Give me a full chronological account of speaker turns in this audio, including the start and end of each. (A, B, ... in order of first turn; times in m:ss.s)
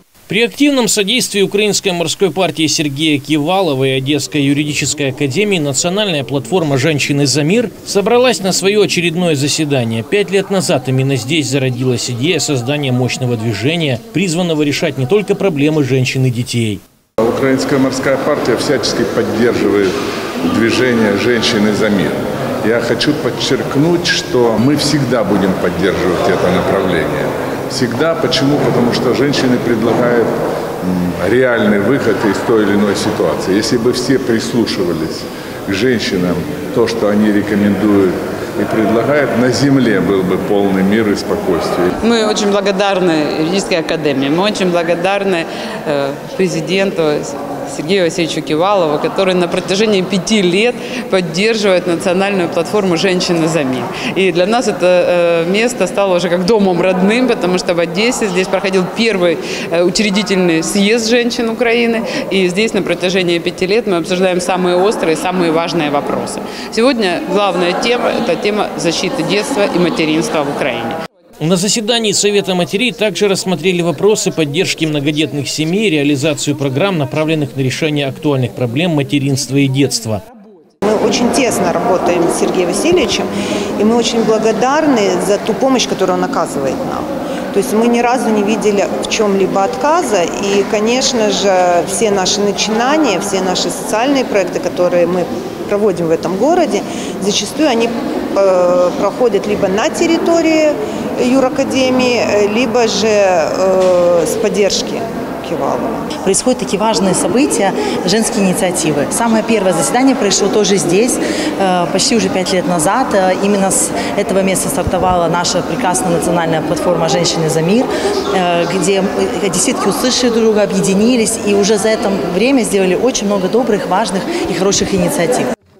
0:00.3-0:16.8 A
0:17.2-0:19.9 B
0:20.4-0:30.3 B
0:30.8-0:41.9 B
0:42.0-1:11.0 C
1:11.4-1:20.2 A
1:20.8-1:46.1 D
1:46.2-2:05.5 E